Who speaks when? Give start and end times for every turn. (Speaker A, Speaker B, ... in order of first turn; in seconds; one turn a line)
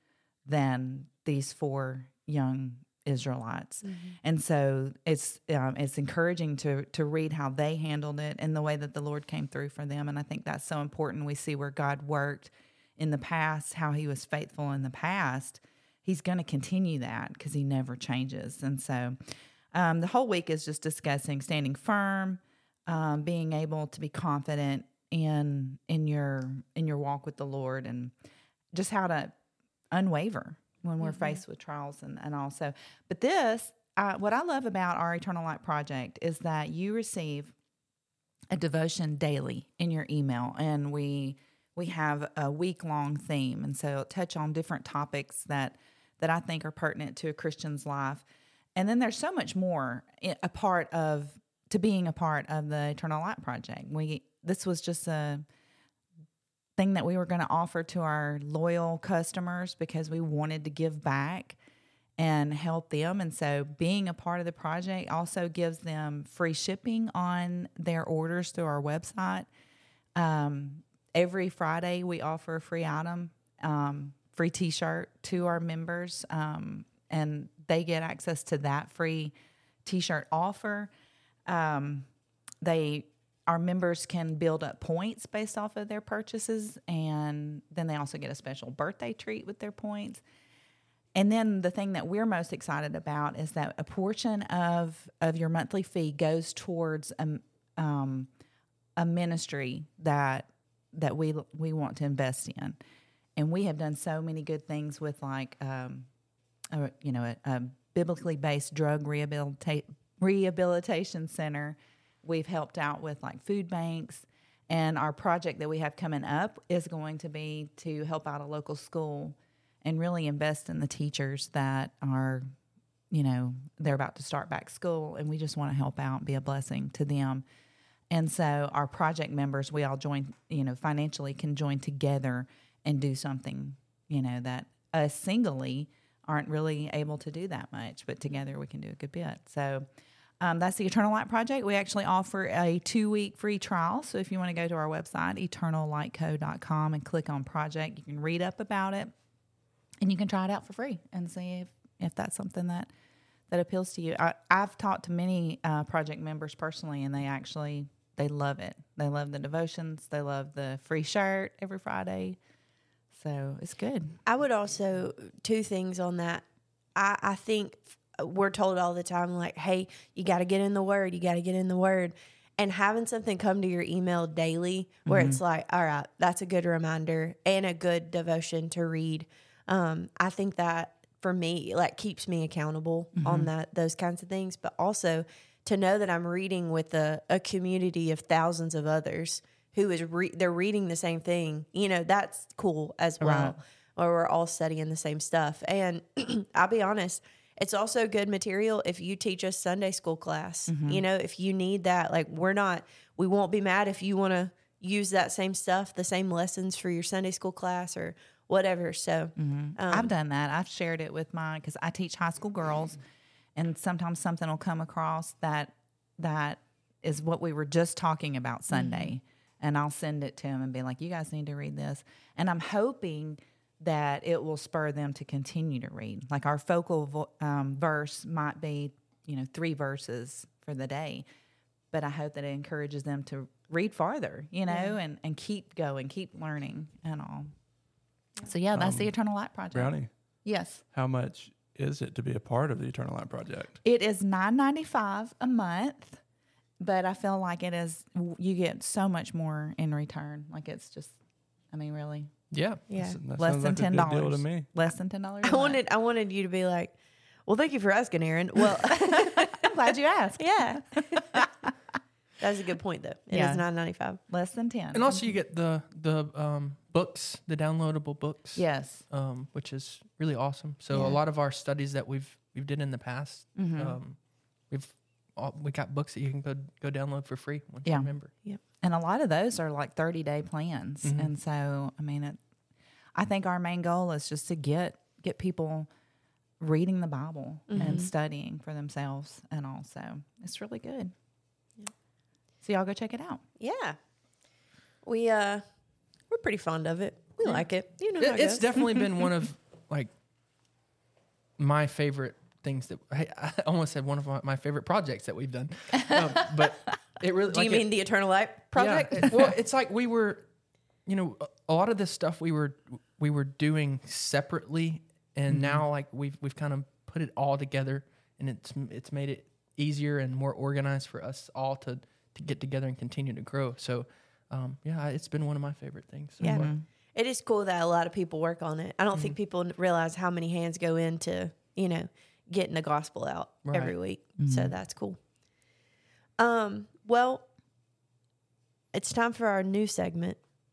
Speaker A: 0.5-19.2
Speaker B: 3.8-4.1
Speaker A: 19.7-28.1
Speaker A: 28.7-29.3
Speaker A: 29.9-37.5
Speaker A: 38.5-48.2
Speaker A: 48.7-55.4
Speaker A: 56.8-61.6
Speaker A: 62.2-69.5
Speaker A: 70.1-79.3
Speaker A: 79.8-80.9
Speaker A: 81.5-82.1
Speaker A: 82.6-90.2
Speaker A: 91.1-98.3
Speaker A: 99.0-102.8
Speaker A: 103.3-106.1
Speaker A: 106.7-122.5
Speaker A: 123.1-127.4
Speaker A: 128.1-139.8
Speaker A: 140.4-149.1
Speaker A: 150.0-152.9
Speaker A: 153.5-162.4
Speaker A: 163.1-164.2
Speaker B: 164.2-210.1
Speaker A: 175.1-175.4
Speaker A: 183.2-183.5
Speaker A: 193.2-193.6
Speaker A: 200.7-201.0
Speaker A: 209.4-213.0
Speaker A: 213.6-231.2
Speaker A: 231.9-237.5
Speaker A: 238.4-239.9
Speaker C: 238.7-239.1
Speaker C: 239.7-240.1
Speaker A: 240.4-240.8
Speaker C: 240.9-243.8
Speaker A: 243.8-246.2
Speaker A: 246.8-251.1
Speaker A: 251.7-252.3
Speaker D: 252.5-252.9
Speaker B: 252.9-253.2
Speaker C: 252.9-254.7
Speaker A: 253.4-255.8
Speaker B: 255.4-256.9
Speaker B: 257.5-259.7
Speaker A: 259.0-261.7
Speaker B: 260.4-261.5
Speaker B: 262.4-264.2
Speaker A: 263.3-263.6
Speaker A: 264.3-265.3
Speaker D: 264.9-274.2
Speaker A: 268.5-269.1
Speaker A: 273.6-274.0
Speaker D: 274.7-278.3
Speaker A: 277.8-278.1
Speaker A: 278.8-282.4
Speaker A: 283.1-285.9
Speaker A: 286.6-291.1
Speaker B: 287.7-288.1
Speaker A: 292.6-293.4
Speaker B: 293.6-293.9
Speaker B: 295.0-295.6
Speaker B: 296.3-298.9
Speaker D: 298.2-300.1
Speaker D: 301.6-307.9
Speaker B: 307.5-309.5
Speaker D: 308.8-310.5
Speaker D: 311.1-326.7
Speaker A: 315.5-315.8
Speaker B: 326.4-335.2
Speaker A: 326.4-326.8
Speaker D: 333.6-333.9
Speaker A: 334.4-334.7
Speaker B: 336.4-337.4
Speaker B: 338.9-340.4